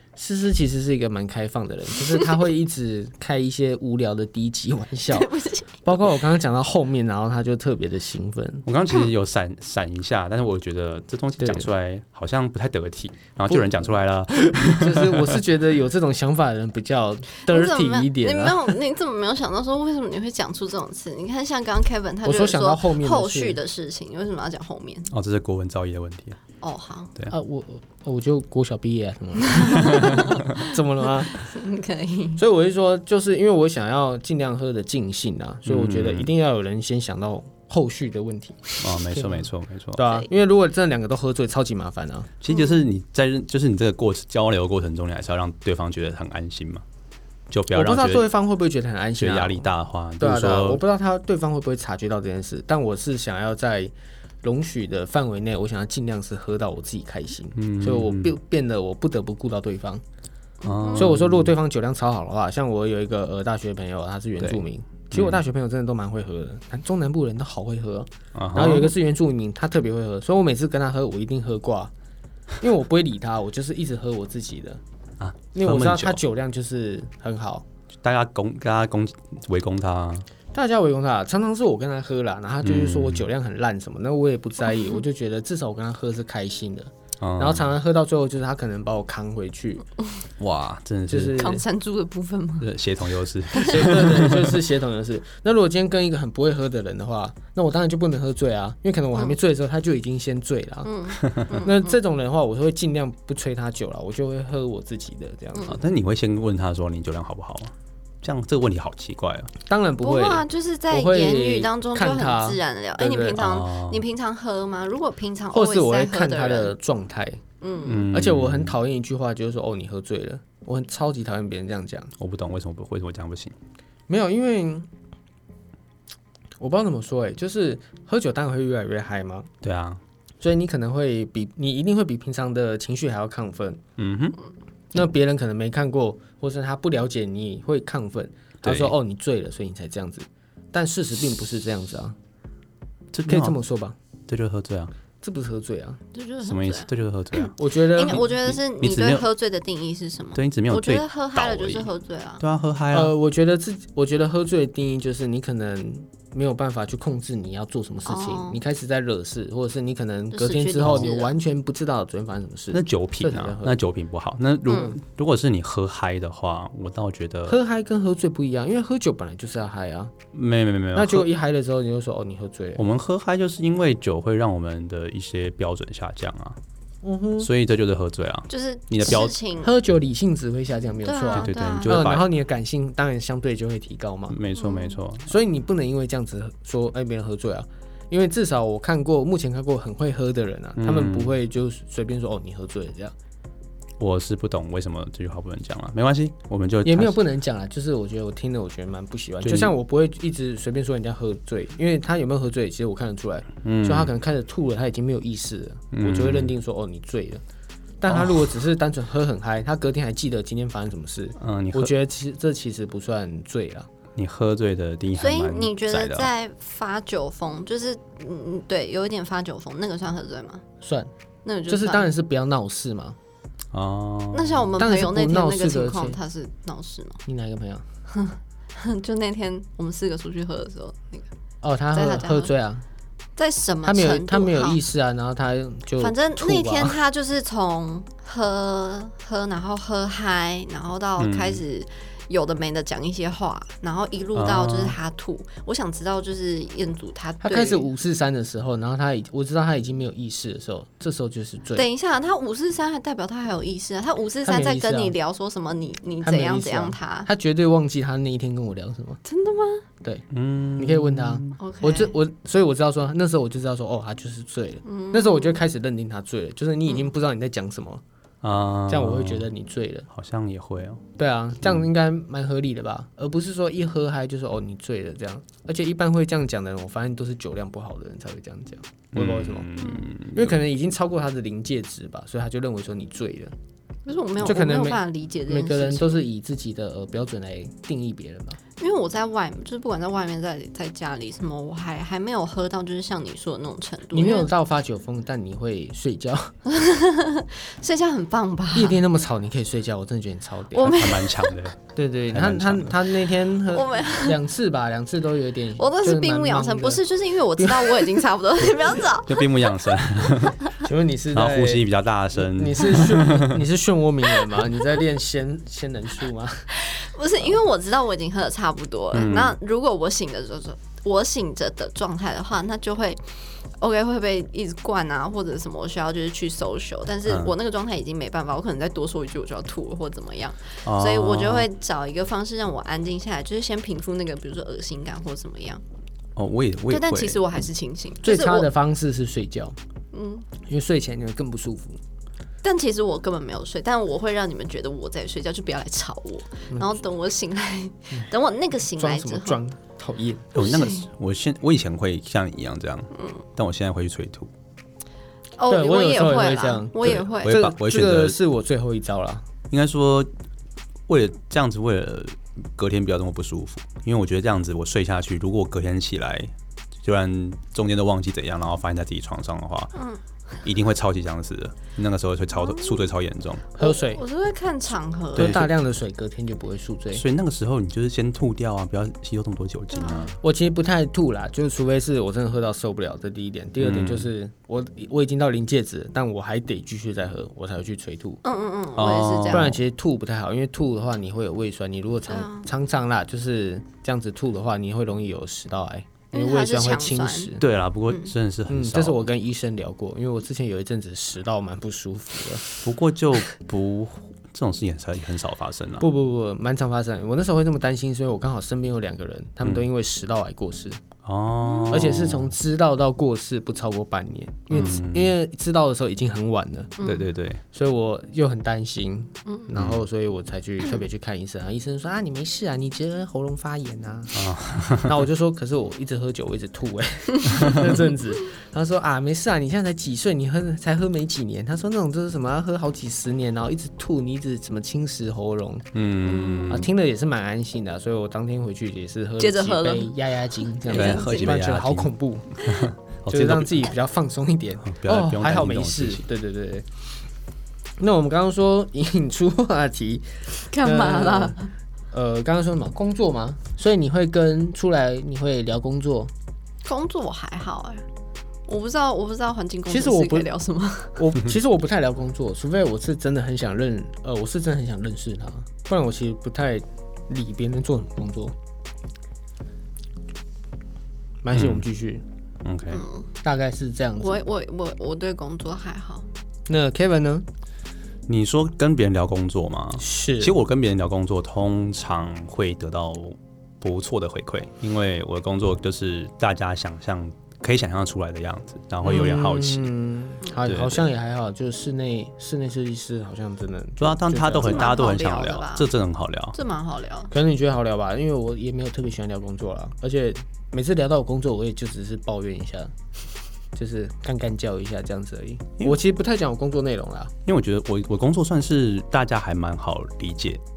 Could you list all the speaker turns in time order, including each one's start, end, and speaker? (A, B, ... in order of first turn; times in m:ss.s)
0:00.2-0:05.3 A
0:05.1-0:05.8 B
0:05.8-0:08.6 A
0:08.6-0:15.4 C
0:11.4-0:11.7 A
0:13.5-0:13.9 A
0:14.7-0:18.8 A
0:17.4-0:25.1 B
0:22.2-0:23.6 A
0:25.1-0:26.4 C
0:26.6-0:27.1 B
0:27.3-0:31.4 A
0:29.6-0:30.6 B
0:29.9-0:30.4 C
0:31.4-0:32.4 B
0:32.4-0:42.3 A
0:35.6-0:36.3 C
0:38.8-0:40.1 C
0:42.4-0:46.8 C
0:47.5-0:48.3 C
0:47.7-0:53.9 A
0:49.2-0:50.8 C
0:54.4-1:00.0 A
0:57.6-0:58.3 C
1:00.6-1:01.1 B
1:00.6-1:01.5 C
1:00.9-1:11.9 A
1:05.1-1:05.4 C
1:08.4-1:08.9 C
1:12.6-1:14.8 A
1:15.2-1:16.2 C
1:15.6-1:17.6 A
1:18.0-1:20.3 C
1:20.5-1:29.8 A
1:22.6-1:23.3 C
1:27.2-1:27.7 C
1:30.4-1:31.5 C
1:31.1-1:31.6 A
1:31.4-1:32.7 B
1:32.6-1:34.6 C
1:33.5-1:33.8 B
1:33.6-1:45.8 A
1:40.8-1:42.0 B
1:41.2-1:41.5 C
1:45.6-1:49.5 C
1:49.7-1:53.4 A
1:50.0-1:56.8 B
1:53.4-1:54.0 C
1:55.5-1:57.4 A
1:57.6-1:58.1 B
1:57.8-1:58.8 C
1:58.1-2:02.1 A
2:02.2-2:03.6 C
2:04.1-2:04.9 A
2:06.6-2:09.5 A
2:09.6-2:10.0 C
2:10.4-2:13.8 A
2:14.0-2:14.4 C
2:14.9-2:22.2 A
2:18.6-2:19.0 C
2:23.1-2:23.6 C
2:23.3-2:24.0 A
2:24.3-2:24.9 C
2:25.2-2:26.0 A
2:26.1-2:32.4 B
2:26.4-2:27.6 C
2:27.6-2:28.3 A
2:28.1-2:29.3 C
2:30.4-2:31.9 C
2:32.4-2:33.1 C
2:32.9-2:43.8 A
2:38.1-2:38.6 B
2:40.3-2:41.4 B
2:42.7-2:47.6 C
2:44.7-2:45.0 B
2:47.5-2:50.2 A
2:50.3-2:51.3 C
2:50.9-2:52.8 A
2:52.8-2:56.6 C
2:57.0-2:57.5 A
2:57.4-2:59.4 C
2:58.5-2:59.7 B
2:59.6-3:04.4 A
3:01.0-3:02.1 B
3:01.3-3:02.3 C
3:04.3-3:05.4 C
3:04.6-3:05.0 B
3:05.3-3:13.1 A
3:10.8-3:11.4 C
3:14.0-3:17.2 C
3:16.8-3:27.4 A
3:19.4-3:19.7 C
3:23.6-3:24.1 C
3:25.9-3:26.6 C
3:28.0-3:33.9 A
3:28.1-3:28.5 C
3:31.4-3:31.9 C
3:34.2-3:36.3 C
3:35.2-3:40.6 B
3:40.8-3:41.1 A
3:41.4-3:42.1 B
3:41.7-3:43.2 A
3:43.7-3:44.7 C
3:44.3-3:47.2 B
3:44.8-3:46.2 A
3:47.3-3:47.8 A
3:48.1-3:51.3 B
3:51.6-3:52.8 A
3:51.9-3:52.5 B
3:53.4-3:54.8 B
3:53.8-3:57.0 A
3:56.0-4:07.9 B
4:01.2-4:01.6 C
4:04.3-4:05.0 C
4:07.4-4:11.9 A
4:11.8-4:17.3 B
4:14.4-4:15.2 A
4:16.2-4:19.2 A
4:19.2-4:19.8 B
4:20.0-4:28.0 A
4:20.3-4:21.6 C
4:21.6-4:22.2 B
4:24.8-4:25.6 B
4:28.4-4:29.5 C
4:28.9-4:30.1 A
4:30.1-4:31.0 C
4:31.2-4:39.7 A
4:39.1-4:40.6 C
4:39.8-4:40.1 B
4:40.3-4:43.5 A
4:44.1-4:46.2 B
4:44.4-4:48.6 A
4:48.8-4:54.5 B
4:54.1-4:56.6 A
4:56.7-4:59.0 B
4:58.8-5:01.0 A
5:00.7-5:01.6 B
5:00.8-5:03.0 C
5:02.0-5:07.0 A
5:03.7-5:04.4 B
5:05.8-5:09.5 B
5:07.6-5:08.2 A
5:09.1-5:10.7 C
5:10.8-5:16.7 A
5:11.3-5:13.6 C
5:16.7-5:23.2 B
5:19.1-5:19.6 C
5:23.8-5:35.8 B
5:27.3-5:27.5 C
5:30.8-5:31.7 C
5:36.4-5:37.4 C
5:36.9-5:38.7 B
5:38.2-5:39.8 A
5:40.1-5:40.5 B
5:40.6-5:42.0 A
5:42.6-5:49.6 B
5:46.7-5:47.0 A
5:48.9-5:50.6 A
5:50.6-5:54.5 C
5:50.6-5:51.1 B
5:53.1-5:53.4 B
5:55.6-5:57.6 B
5:55.7-5:59.4 A
5:57.0-5:58.4 C
5:59.7-6:00.3 C
6:01.1-6:09.9 C
6:10.0-6:10.2 B
6:10.6-6:13.6 C
6:12.6-6:13.0 B
6:13.8-6:14.2 A
6:13.8-6:15.7 B
6:15.4-6:17.2 A
6:15.4-6:15.7 C
6:17.1-6:20.4 C
6:19.9-6:20.4 B
6:20.4-6:28.4 A
6:23.8-6:24.3 C
6:28.4-6:29.8 B
6:29.0-6:29.8 C
6:29.5-6:37.6 A
6:32.3-6:32.7 B
6:36.3-6:37.5 B
6:37.6-6:39.3 C
6:38.7-6:42.8 A
6:42.8-6:46.1 C
6:46.0-6:51.0 A
6:51.2-6:52.5 C
6:51.6-6:52.0 B
6:51.9-6:57.0 A
6:54.7-6:55.3 C
6:57.0-6:57.3 B
6:57.0-6:57.6 C
6:57.7-7:15.9 A
6:59.7-7:00.0 C
7:04.3-7:05.2 C
7:07.5-7:07.8 C
7:15.9-7:16.9 C
7:16.3-7:16.8 B
7:16.7-7:22.7 A
7:19.4-7:21.4 B
7:20.9-7:22.1 C
7:22.6-7:23.9 C
7:23.3-7:26.9 A
7:24.8-7:26.2 C
7:28.0-7:31.6 A
7:30.7-7:31.7 B
7:32.1-7:36.3 A
7:36.8-7:38.0 B
7:38.7-7:41.4 B
7:39.9-7:40.5 A
7:41.2-7:48.6 A
7:51.4-7:52.2 A
7:51.5-7:51.8 C
7:52.6-7:53.0 C
7:52.9-7:53.3 B
7:53.4-7:54.4 A
7:54.2-7:56.3 B
7:56.7-7:57.5 A
7:58.3-8:09.9 C
8:00.0-8:00.6 A
8:09.0-8:15.0 A
8:10.7-8:11.1 C
8:14.0-8:16.6 C
8:14.6-8:15.9 B
8:16.5-8:17.3 B
8:17.3-8:22.9 A
8:23.8-8:27.3 A
8:27.4-8:30.6 C